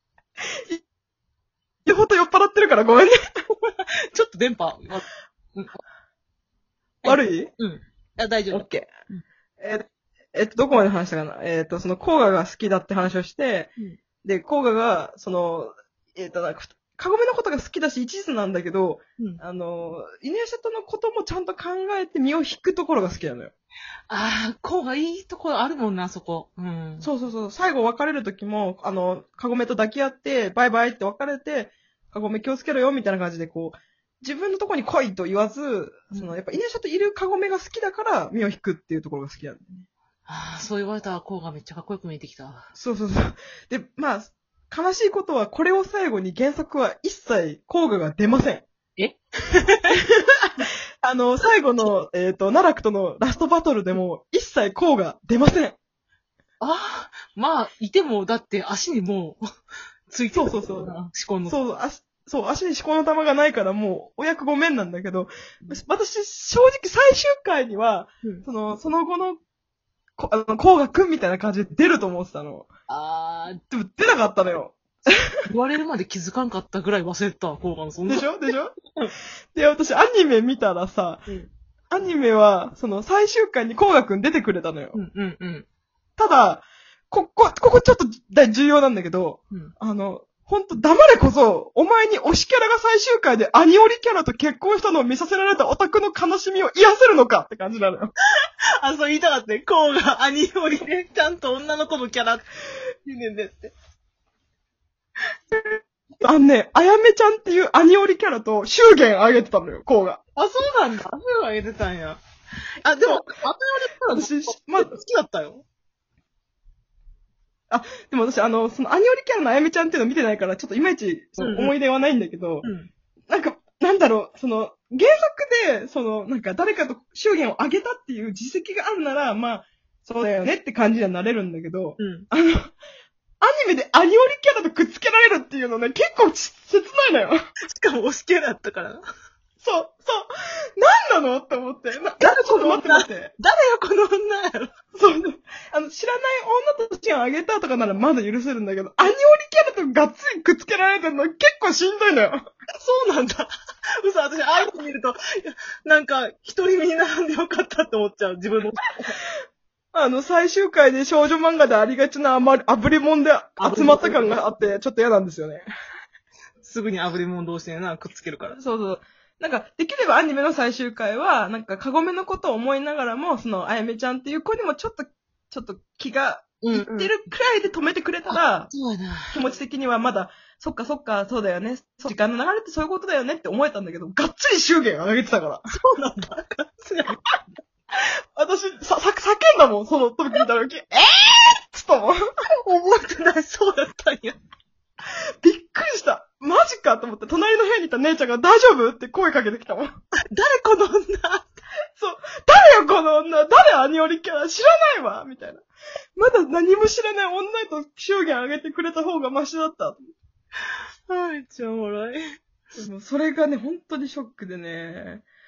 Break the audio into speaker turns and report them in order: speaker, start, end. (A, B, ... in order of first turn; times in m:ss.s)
0:01.9-0:03.1 A
0:03.7-0:05.8 B
0:07.0-0:09.2 B
0:07.0-0:07.5 A
0:08.5-0:08.9 A
0:09.6-0:13.7 A
0:14.2-0:23.5 A
0:24.1-0:27.1 B
0:27.0-0:39.9 A
0:40.3-0:42.7 B
0:42.8-0:48.7 A
0:49.0-0:49.9 B
0:49.9-0:50.2 A
0:51.0-0:55.8 A
0:56.6-0:59.4 B
1:00.1-1:01.6 B
1:00.4-1:00.9 A
1:01.5-1:09.4 A
1:10.2-1:12.7 A
1:12.9-1:13.6 B
1:13.7-1:15.1 A
1:15.5-1:18.3 B
1:18.1-1:18.8 A
1:19.6-1:21.3 A
1:21.9-1:25.0 A
1:24.9-1:25.7 B
1:26.2-1:38.1 A
1:38.8-1:42.5 B
1:43.0-1:43.7 B
1:46.2-1:50.2 A
1:50.4-1:52.2 B
1:52.8-1:55.6 B
1:54.1-1:54.9 A
1:57.7-2:02.7 A
2:01.4-2:01.7 B
2:02.6-2:02.9 B
2:03.3-2:12.7 A
2:12.0-2:12.3 B
2:13.4-2:17.4 A
2:17.7-2:19.0 B
2:19.6-2:23.3 A
2:22.2-2:24.7 B
2:24.9-2:32.5 A
2:32.8-2:39.2 B
2:39.9-2:45.7 A
2:43.6-2:44.3 B
2:46.6-2:48.6 B
2:48.5-2:58.7 A
2:56.6-2:57.1 B
2:58.3-2:59.4 B
2:59.3-3:05.7 A
3:05.7-3:07.2 B
3:08.0-3:12.2 A
3:12.6-3:14.4 B
3:15.4-3:19.9 A
3:20.3-3:21.6 B
3:22.0-3:25.6 A
3:26.2-3:30.1 A
3:31.1-3:32.2 B
3:32.8-3:35.2 A